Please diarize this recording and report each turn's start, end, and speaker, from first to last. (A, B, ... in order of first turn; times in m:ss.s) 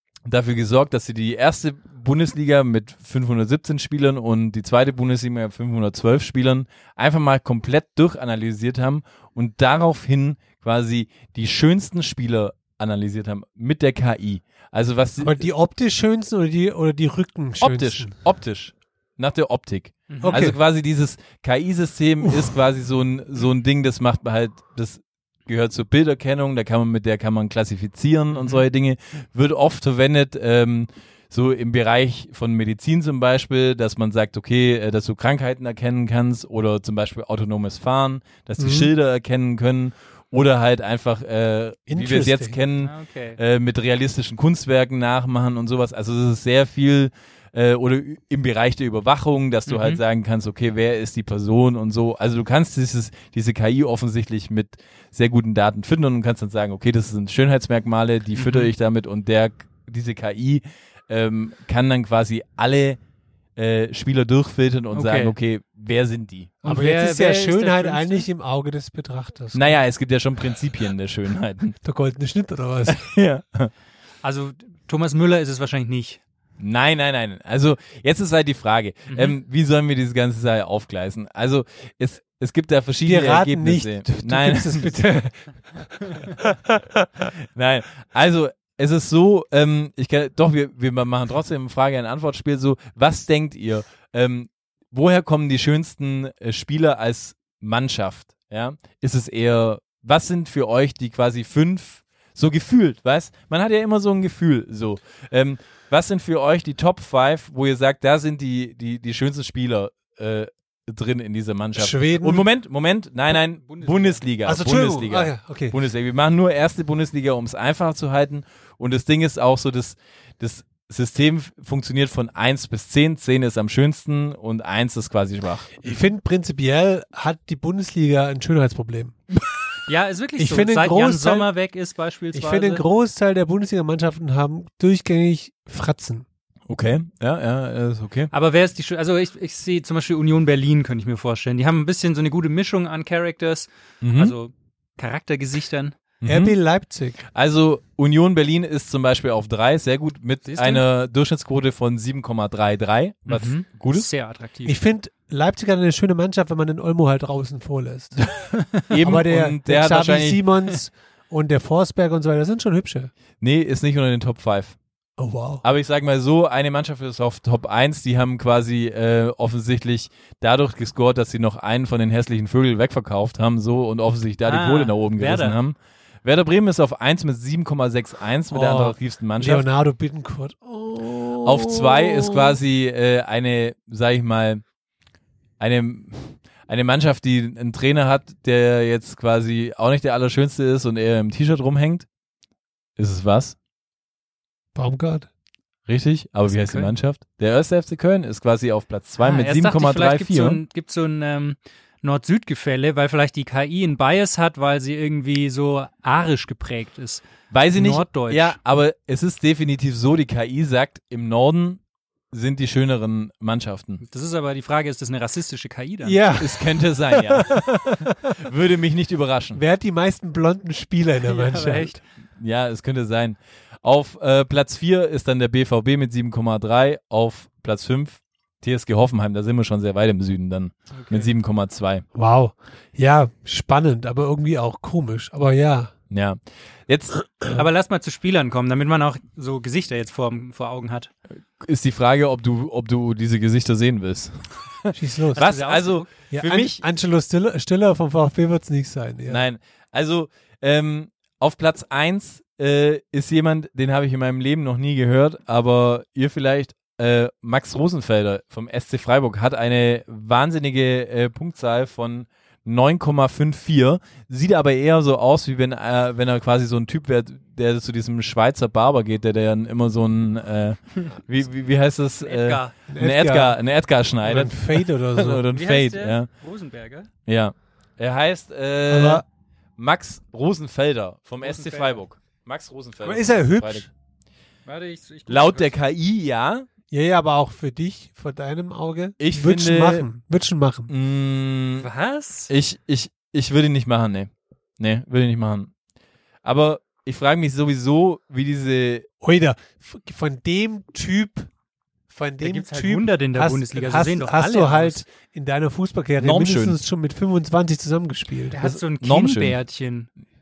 0:00.3-0:15.5 A
0:15.2-0:18.1 B
0:17.6-1:03.0 A
0:20.1-0:20.4 C
0:20.2-0:20.6 B
0:28.4-0:28.6 C
0:38.6-0:38.9 B
0:41.9-0:42.6 B
0:42.8-0:43.4 C
0:49.7-0:50.0 C
0:58.4-0:58.7 C
1:03.6-1:06.6 A
1:04.9-1:05.3 C
1:06.6-1:08.3 C
1:06.6-1:09.8 B
1:09.5-1:11.8 A
1:11.8-1:13.1 B
1:12.9-1:13.7 A
1:14.2-1:16.2 C
1:16.6-1:25.0 A
1:19.1-1:19.3 C
1:23.0-1:27.2 B
1:27.5-2:05.7 A
1:51.8-1:52.5 B
1:53.4-1:54.2 C
1:54.4-1:55.8 B
2:05.8-2:09.2 B
2:09.9-2:12.8 C
2:10.4-2:11.5 B
2:12.3-2:16.3 B
2:16.7-2:18.3 A
2:18.3-2:26.0 C
2:24.0-2:24.3 A
2:26.2-2:26.6 A
2:26.2-2:27.2 B
2:27.3-2:34.1 A
2:30.4-2:30.8 C
2:33.3-2:34.8 C
2:34.6-2:38.3 B
2:38.9-2:40.4 A
2:39.0-2:43.1 B
2:43.4-2:44.8 A
2:45.2-2:45.6 B
2:45.6-2:59.7 A
2:54.4-2:55.6 C
2:58.5-3:02.5 B
3:01.4-3:04.6 A
3:05.6-3:12.1 A
3:13.0-3:13.6 A
3:14.8-3:15.3 B
3:15.9-3:20.6 A
3:16.5-3:16.9 C
3:19.2-3:28.6 C
3:27.5-3:34.0 A
3:34.0-3:36.2 C
3:36.0-3:38.3 B
3:36.4-3:39.6 A
3:39.6-3:42.0 B
3:41.2-3:42.0 C
3:42.4-3:52.0 A
3:50.9-3:51.3 C
3:52.2-3:55.9 B
3:56.1-3:57.2 A
3:57.5-4:01.1 C
4:01.6-4:06.8 A
4:04.9-4:05.5 B
4:05.4-4:06.1 C
4:06.3-4:09.4 B
4:09.3-4:36.3 A
4:32.2-4:32.8 C
4:32.9-4:33.6 B
4:34.2-4:35.4 B
4:35.5-4:37.1 C
4:37.3-4:39.2 A
4:38.9-4:39.2 B
4:39.8-4:43.9 A
4:41.4-4:42.0 C
4:43.0-4:43.9 B
4:44.7-4:45.7 C
4:45.3-4:46.7 A
4:46.9-4:50.9 B
4:49.2-4:50.1 A
4:50.9-4:51.9 A
4:51.8-4:52.5 C
4:52.5-4:55.7 A
4:56.4-4:59.1 A
4:59.2-5:01.5 B
5:02.1-5:08.6 B
5:02.4-5:05.0 C
5:06.2-5:06.8 A
5:08.5-5:10.1 C
5:08.6-5:09.6 A